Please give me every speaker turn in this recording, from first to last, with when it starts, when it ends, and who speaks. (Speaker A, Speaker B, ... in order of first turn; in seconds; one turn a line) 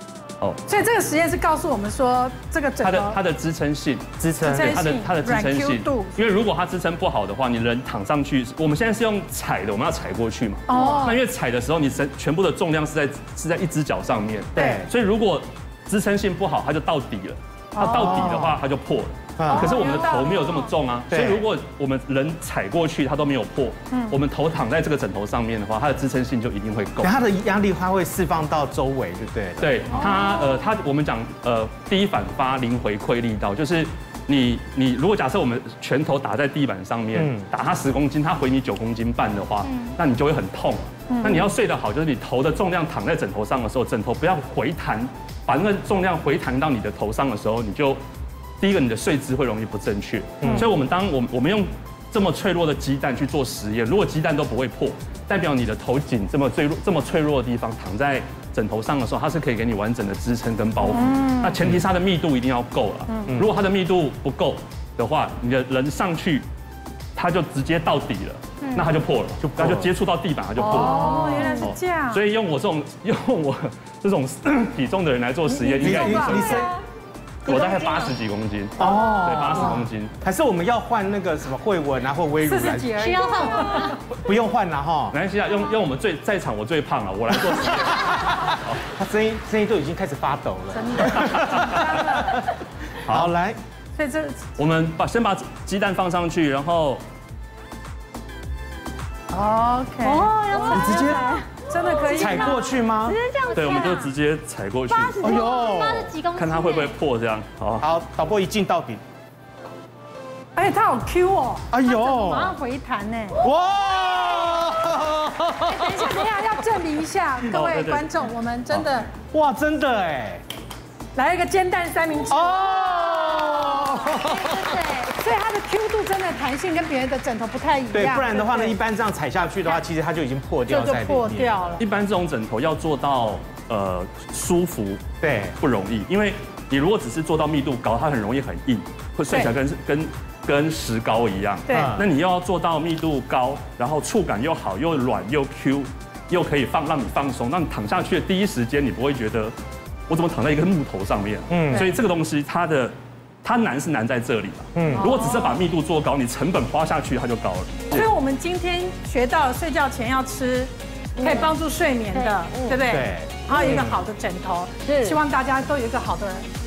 Speaker A: 0.7-3.2
Speaker B: 2.8-27.1
Speaker C: 4.2-4.8
Speaker A: 4.4-6.2
Speaker A: 10.7-11.2
Speaker C: 14.6-14.9
Speaker A: 17.7-18.2
Speaker C: 17.9-18.5
Speaker C: 19.4-19.8
Speaker A: 19.4-20.7
Speaker C: 21.1-21.4
Speaker A: 23.9-24.2
Speaker C: 27.0-29.8
Speaker B: 29.6-48.0
Speaker A: 29.9-30.3
Speaker C: 37.1-37.5
Speaker D: 39.6-40.0
Speaker A: 41.1-41.5
Speaker B: 48.6-66.4
Speaker C: 50.4-50.7
Speaker A: 60.8-61.6
Speaker B: 67.2-76.6
Speaker D: 68.6-68.9
Speaker C: 69.4-69.9
Speaker A: 70.5-72.2
Speaker C: 70.8-71.4
Speaker A: 75.5-76.5
Speaker C: 75.8-76.7
Speaker E: 76.3-76.8
Speaker E: 77.5-78.1
Speaker B: 77.5-80.1
Speaker C: 78.8-82.9
Speaker A: 82.4-84.0
Speaker D: 83.0-84.0
Speaker C: 84.1-85.2
Speaker B: 85.1-88.8
Speaker C: 87.5-92.5
Speaker A: 90.7-92.5
Speaker B: 93.0-93.3
Speaker C: 93.1-93.6
Speaker A: 93.9-94.4
Speaker B: 94.6-97.0
Speaker A: 99.3-100.9
Speaker E: 100.1-102.3
Speaker D: 100.3-101.2
Speaker C: 100.7-101.2
Speaker A: 101.6-102.8
Speaker D: 101.9-102.2
Speaker C: 102.1-103.2
Speaker E: 103.0-104.1
Speaker B: 103.5-105.5
Speaker D: 103.7-104.1
Speaker D: 104.9-107.0
Speaker C: 105.2-106.2
Speaker B: 106.3-107.8
Speaker C: 107.8-109.0
Speaker A: 110.5-113.4
Speaker C: 111.7-112.5
Speaker C: 113.4-116.2
Speaker A: 115.8-119.1
Speaker B: 117.5-118.2
Speaker C: 119.3-120.4
Speaker A: 121.1-123.9
Speaker C: 122.3-124.8
Speaker D: 122.8-125.1
Speaker A: 125.0-128.8
Speaker C: 127.9-131.6
Speaker A: 130.7-131.8
Speaker B: 131.8-135.0
Speaker C: 135.2-135.6
Speaker B: 135.6-149.5
Speaker A: 139.3-139.6
Speaker A: 141.7-141.9
Speaker C: 141.7-142.1
Speaker B: 150.1-158.1
Speaker C: 151.5-151.9
Speaker C: 154.7-155.1
Speaker A: 154.8-155.6
Speaker A: 157.9-166.5
Speaker E: 161.2-161.5
Speaker D: 162.1-162.4
Speaker E: 162.5-162.8
Speaker C: 162.8-164.0
Speaker E: 164.8-165.2